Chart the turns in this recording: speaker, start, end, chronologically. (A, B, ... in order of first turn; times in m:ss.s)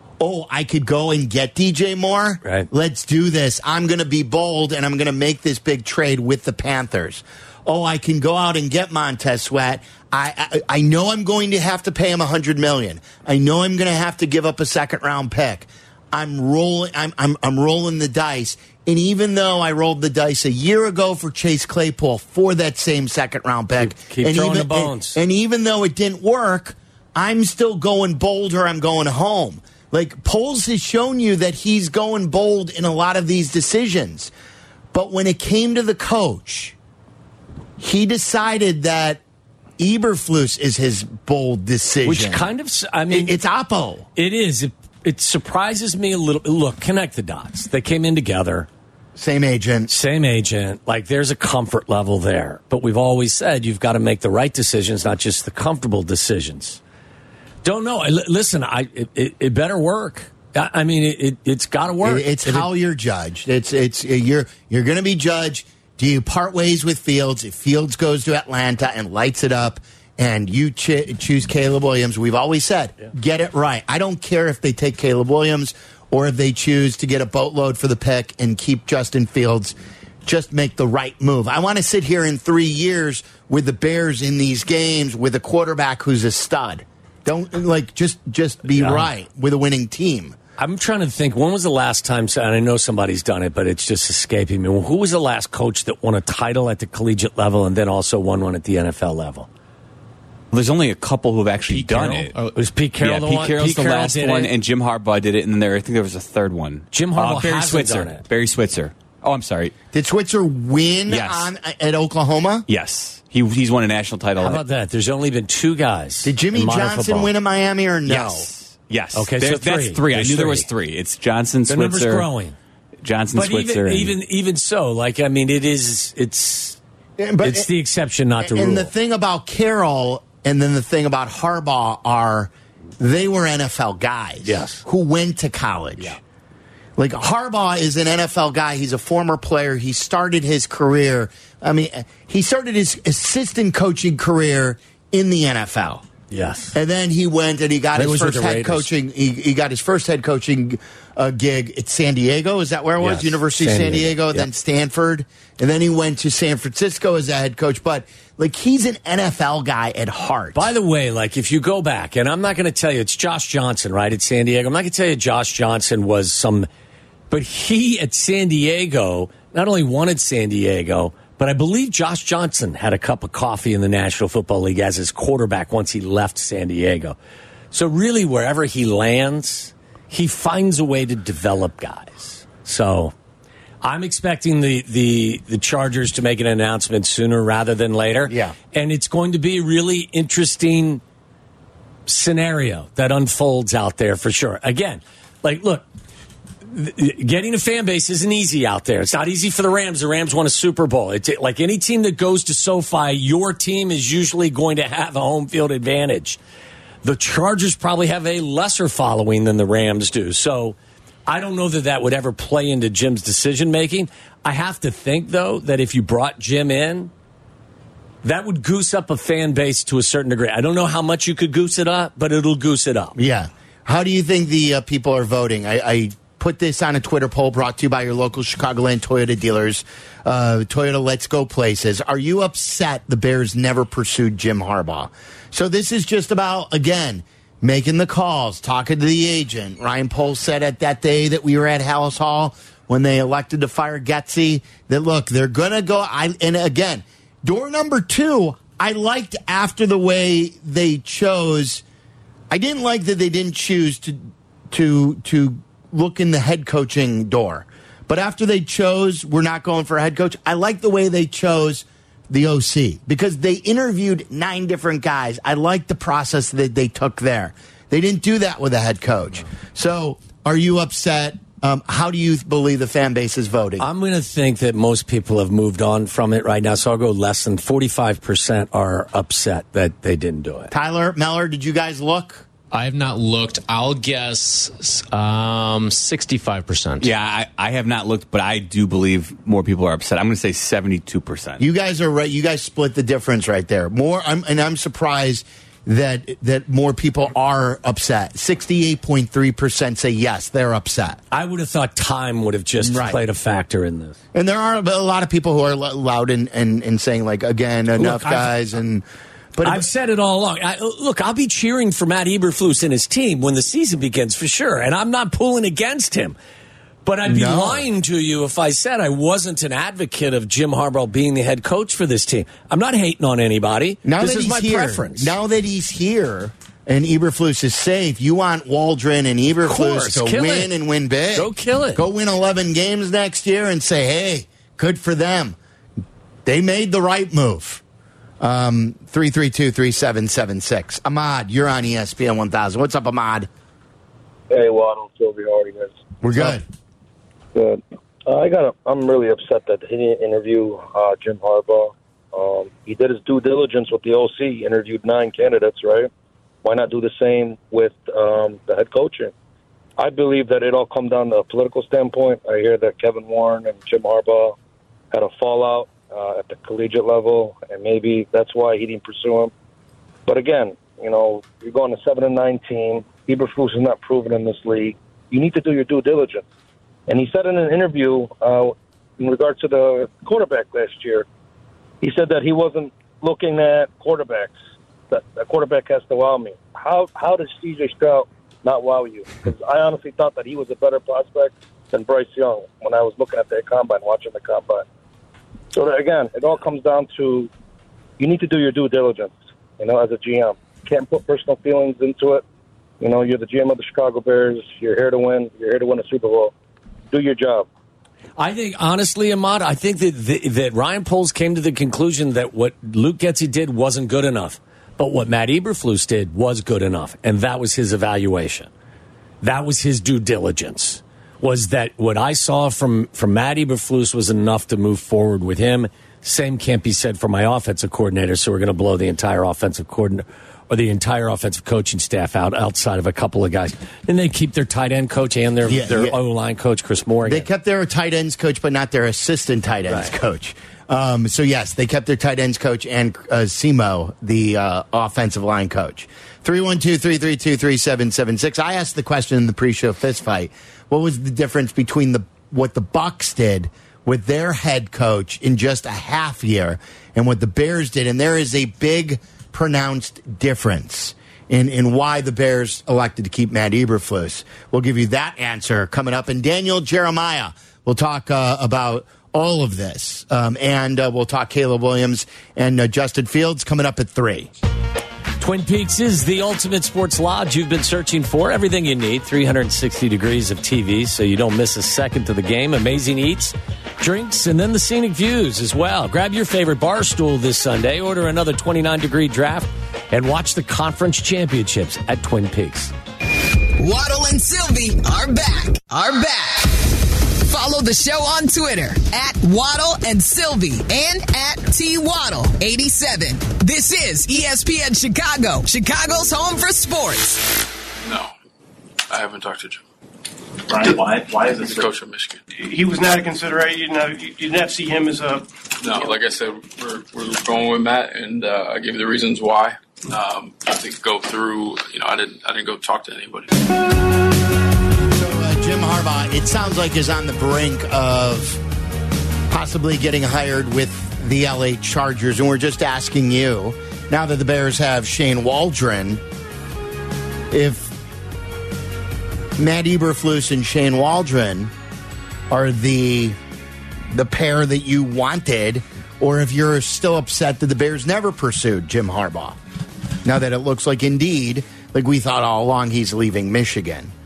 0:00.2-0:34.3 A
0:23.8-0:25.2 B
0:34.9-0:36.7 A
0:37.8-0:39.2 A
0:39.8-0:42.5 A
0:42.0-0:43.3 B
0:43.1-0:44.1 A
0:44.2-0:48.7 B
0:49.2-0:49.9 A
0:49.9-0:56.8 B
0:57.6-1:02.7 B
1:02.0-1:30.4 A
1:28.7-1:29.1 B
1:30.6-1:39.5 B
1:40.5-1:42.4 C
1:41.7-1:42.5 D
1:41.9-1:44.5 B
1:43.0-1:49.7 C
1:46.9-1:48.2 B
1:49.9-1:52.7 A
1:51.1-1:51.5 C
1:52.7-1:54.6 C
1:54.4-1:57.3 B
1:56.2-1:58.5 A
1:58.0-2:02.3 C
1:59.1-2:00.7 B
2:01.7-2:02.6 B
2:03.0-2:04.2 C
2:03.3-2:06.8 B
2:07.2-2:07.7 A
2:07.4-2:08.9 B
2:08.4-2:16.2 A
2:14.4-2:14.8 B
2:17.0-2:26.0 A
2:26.3-2:26.8 B
2:26.7-2:40.7 A
2:27.9-2:28.9 B
2:33.0-2:34.5 B
2:40.5-2:46.7 B
2:47.3-2:57.2 B
2:57.7-3:03.1 B
3:03.8-3:11.0 B
3:08.3-3:08.5 A
3:12.1-3:15.8 B
3:16.7-3:26.4 B
3:27.0-3:30.8 B
3:31.3-3:37.1 B
3:38.2-3:43.2 B
3:43.2-4:11.8 A
4:12.5-4:33.8 A
4:33.8-4:40.7 B
4:40.7-4:42.4 A
4:42.7-4:47.1 D
4:47.0-4:51.6 C
4:51.6-5:01.2 A
5:01.3-5:04.2 B
5:02.8-5:03.2 A
5:04.3-5:09.0 A
5:08.0-5:08.6 B
5:09.5-5:09.9 A
5:09.6-5:16.4 B
5:17.0-5:25.4 B
5:17.2-5:17.8 A
5:24.0-5:35.6 A
5:29.6-5:30.7 B
5:31.3-5:32.0 B
5:36.4-5:37.8 A
5:38.4-5:43.5 A
5:44.5-5:46.0 E
5:46.2-5:46.6 A
5:47.5-5:56.1 E
5:56.6-5:59.3 E
6:00.0-6:04.5 E
6:05.1-6:09.5 E
6:10.3-6:16.4 E
6:17.1-6:21.2 E
6:22.0-6:24.5 E
6:25.1-6:34.8 E
6:35.7-6:37.5 E
6:38.2-6:42.4 E
6:43.0-6:46.5 E
6:47.1-6:47.7 E
6:48.4-6:58.7 B
6:59.4-7:17.5 B
7:15.6-7:16.2 A
7:17.2-7:54.5 A
7:55.4-8:12.9 B
8:13.8-8:27.5 F
8:28.0-8:28.3 G
8:29.1-8:29.8 G
8:30.7-8:32.4 G
8:32.5-8:35.5 H
8:35.8-8:43.5 G
8:45.1-8:48.6 A
8:49.5-8:56.2 A
8:57.5-8:58.0 A
8:59.6-9:01.7 A
9:02.5-9:03.4 A
9:04.1-9:09.6 A
9:10.2-9:14.1 A